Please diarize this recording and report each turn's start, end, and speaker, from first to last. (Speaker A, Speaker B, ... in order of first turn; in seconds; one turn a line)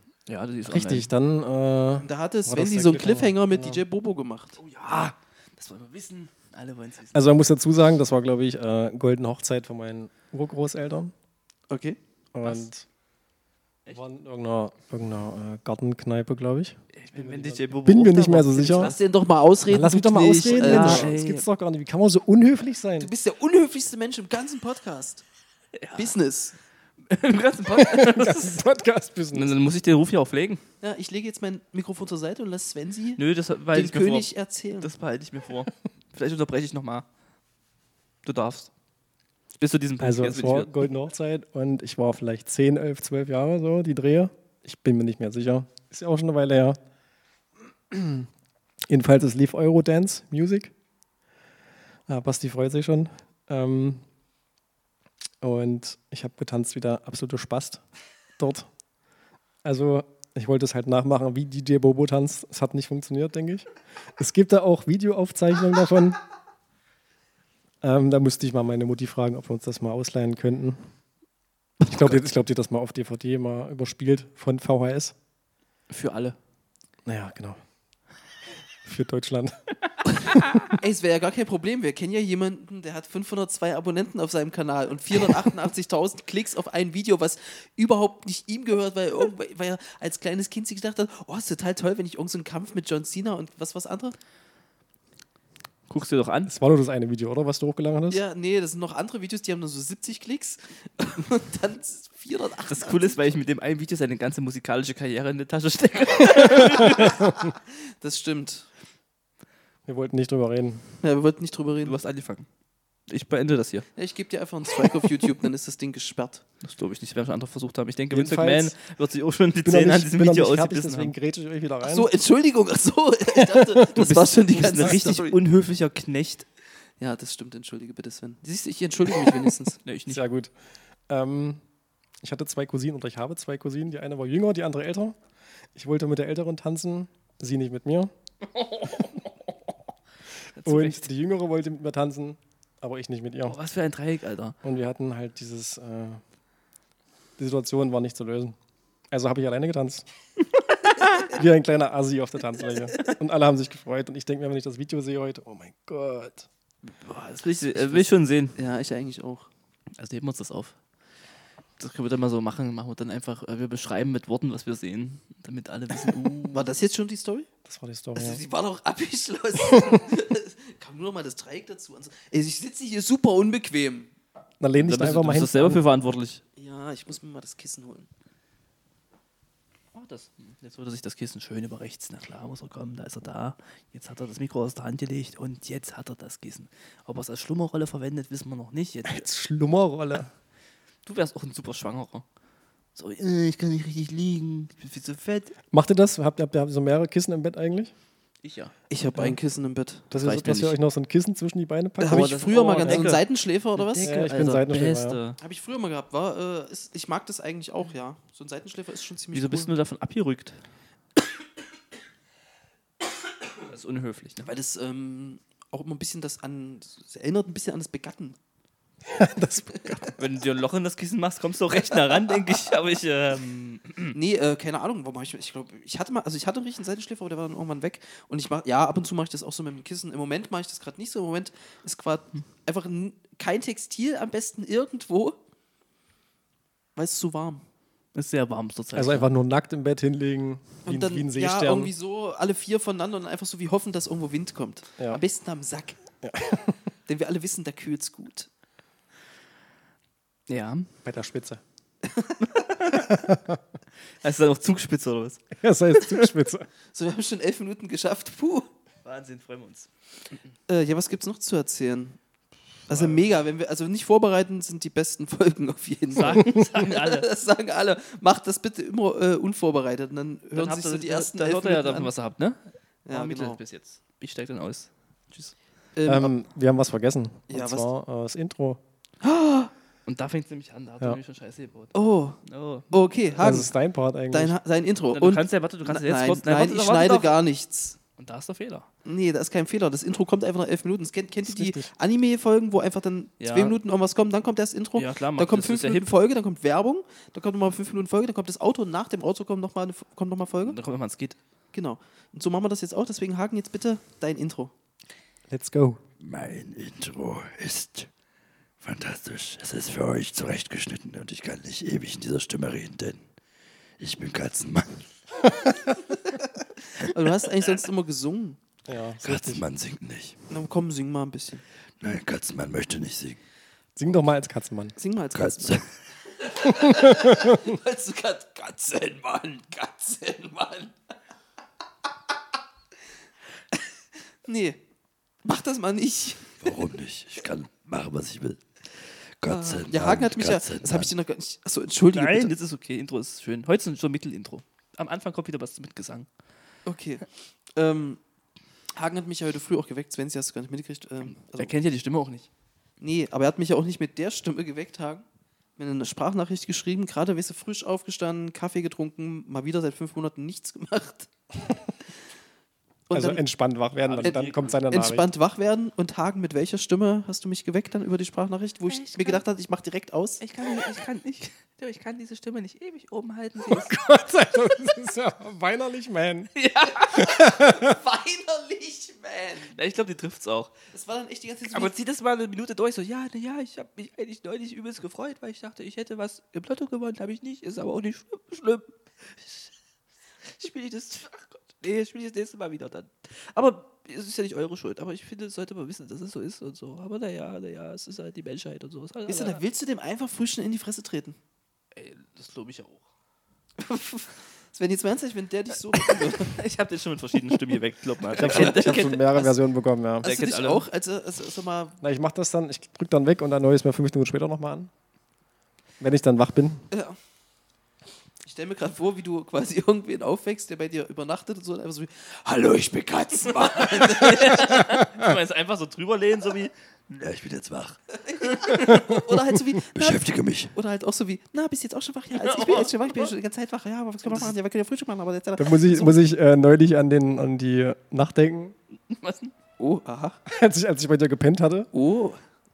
Speaker A: 0.3-1.1
Speaker B: 0.7-3.8
Speaker C: 2.0-4.6
Speaker A: 4.6-7.2
Speaker B: 7.1-11.1
Speaker C: 11.7-12.0
Speaker B: 12.3-12.8
Speaker B: 13.9-18.9
Speaker A: 16.9-19.0
Speaker C: 18.8-21.1
Speaker B: 19.7-23.1
Speaker A: 20.4-21.4
Speaker C: 23.0-25.2
Speaker A: 25.8-26.1
Speaker C: 25.9-26.5
Speaker A: 27.1-28.6
Speaker B: 27.7-29.6
Speaker A: 29.3-30.6
Speaker C: 30.8-33.2
Speaker A: 33.2-37.0
Speaker C: 33.7-34.9
Speaker A: 38.2-38.7
Speaker A: 39.6-40.8
Speaker B: 40.0-46.8
Speaker B: 47.9-48.3
Speaker B: 48.9-50.7
Speaker B: 52.1-54.0
Speaker B: 55.4-57.8
Speaker B: 58.4-58.7
Speaker B: 59.6-66.2
Speaker B: 67.8-70.8
Speaker B: 71.8-75.1
Speaker A: 71.8-72.2
Speaker A: 75.9-76.4
Speaker B: 77.0-77.6
Speaker B: 78.8-79.6
Speaker B: 80.2-80.6
Speaker C: 80.7-94.2
Speaker A: 95.9-96.5
Speaker B: 96.5-98.2
Speaker C: 98.1-103.2
Speaker A: 102.7-107.3
Speaker C: 107.0-108.7
Speaker B: 109.8-110.9
Speaker C: 111.0-112.0
Speaker A: 111.8-112.5
Speaker A: 113.1-113.8
Speaker C: 114.0-116.4
Speaker A: 116.6-121.1
Speaker B: 118.1-118.7
Speaker B: 119.6-122.1
Speaker C: 121.8-125.4
Speaker B: 123.3-125.0
Speaker A: 124.0-126.4
Speaker C: 127.0-129.8
Speaker A: 129.8-130.2
Speaker B: 130.1-130.5
Speaker B: 131.1-131.6
Speaker B: 132.2-135.2
Speaker B: 135.7-138.1
Speaker A: 138.4-139.3
Speaker A: 140.5-141.0
Speaker B: 140.6-143.6
Speaker A: 143.5-144.6
Speaker B: 144.6-146.2
Speaker B: 147.4-148.6
Speaker B: 149.1-150.0
Speaker B: 151.3-156.5
Speaker A: 157.0-158.6
Speaker C: 157.7-159.5
Speaker A: 160.0-160.8
Speaker A: 161.8-166.6
Speaker C: 166.5-167.5
Speaker B: 167.6-168.4
Speaker C: 168.1-174.1
Speaker B: 169.6-170.0
Speaker B: 174.6-175.8
Speaker A: 174.8-176.4
Speaker C: 176.6-178.1
Speaker A: 179.9-189.2
Speaker B: 189.1-190.3
Speaker A: 191.0-192.2
Speaker A: 192.9-195.5
Speaker B: 195.7-197.9
Speaker A: 198.4-198.7
Speaker C: 198.9-200.1
Speaker B: 200.1-202.3
Speaker A: 200.2-200.7
Speaker C: 202.0-204.3
Speaker A: 202.0-203.2
Speaker A: 203.8-205.4
Speaker B: 204.0-205.2
Speaker C: 205.4-209.7
Speaker A: 209.3-210.6
Speaker A: 213.7-214.5
Speaker C: 214.4-218.4
Speaker B: 219.0-220.2
Speaker A: 220.2-224.2
Speaker C: 221.9-222.6
Speaker C: 224.1-235.4
Speaker C: 236.9-237.6
Speaker A: 238.1-239.3
Speaker B: 238.9-241.9
Speaker C: 240.8-246.0
Speaker B: 246.2-246.9
Speaker C: 247.1-248.5
Speaker A: 250.5-250.9
Speaker B: 251.0-251.6
Speaker C: 252.0-252.7
Speaker A: 252.6-253.1
Speaker B: 252.9-253.6
Speaker A: 254.2-256.3
Speaker B: 255.6-256.7
Speaker C: 256.9-258.7
Speaker A: 259.0-260.4
Speaker C: 260.7-262.2
Speaker C: 262.9-272.1
Speaker A: 266.1-267.3
Speaker A: 270.5-275.5
Speaker C: 273.1-273.6
Speaker C: 275.9-276.3
Speaker B: 276.1-278.8
Speaker C: 277.5-277.9
Speaker C: 279.2-279.7
Speaker A: 280.1-281.9
Speaker C: 281.9-282.4
Speaker A: 282.4-282.9
Speaker C: 282.9-283.7
Speaker B: 283.4-284.5
Speaker C: 284.3-288.0
Speaker A: 285.1-287.4
Speaker A: 288.2-288.9
Speaker C: 289.0-300.8
Speaker B: 291.5-291.9
Speaker A: 293.4-293.8
Speaker A: 294.9-296.1
Speaker A: 300.6-301.4
Speaker C: 301.7-304.7
Speaker B: 305.5-306.0
Speaker D: 306.2-308.1
Speaker D: 308.8-313.2
Speaker D: 314.0-315.5
Speaker C: 317.0-318.6
Speaker B: 318.9-319.6
Speaker D: 319.2-320.4
Speaker C: 320.5-321.6
Speaker D: 322.0-323.4
Speaker B: 323.9-324.9
Speaker C: 324.9-330.9
Speaker D: 325.3-325.9
Speaker B: 326.6-327.6
Speaker C: 334.4-334.8
Speaker C: 335.4-336.8
Speaker D: 336.6-341.1
Speaker C: 339.5-342.5
Speaker A: 342.1-346.3
Speaker C: 346.9-348.2
Speaker C: 348.9-351.7
Speaker A: 351.3-352.5
Speaker C: 353.0-355.2
Speaker C: 355.8-361.3
Speaker C: 363.1-363.4
Speaker B: 363.1-365.3
Speaker A: 364.0-364.8
Speaker C: 364.2-370.4
Speaker A: 368.9-369.4
Speaker A: 370.4-374.0
Speaker B: 373.7-376.5
Speaker A: 376.6-377.3
Speaker B: 377.1-378.0
Speaker C: 377.1-379.7
Speaker A: 379.7-380.7
Speaker C: 380.9-381.9
Speaker A: 381.7-389.7
Speaker A: 390.4-399.6
Speaker C: 399.3-401.4
Speaker A: 401.9-403.0
Speaker C: 403.8-406.6
Speaker A: 405.9-409.6
Speaker B: 408.4-410.2
Speaker C: 408.4-409.1
Speaker A: 410.2-410.9
Speaker C: 410.2-412.0
Speaker B: 412.0-414.9
Speaker B: 416.0-416.8
Speaker C: 416.9-417.1
Speaker C: 418.4-424.9
Speaker A: 423.5-426.7
Speaker D: 427.1-428.0
Speaker C: 428.2-436.2
Speaker A: 428.7-429.1
Speaker D: 429.9-430.7
Speaker A: 432.3-433.3
Speaker A: 434.2-434.5
Speaker B: 435.6-438.7
Speaker A: 439.1-439.5
Speaker C: 439.8-440.4
Speaker B: 440.4-441.9
Speaker C: 441.9-442.4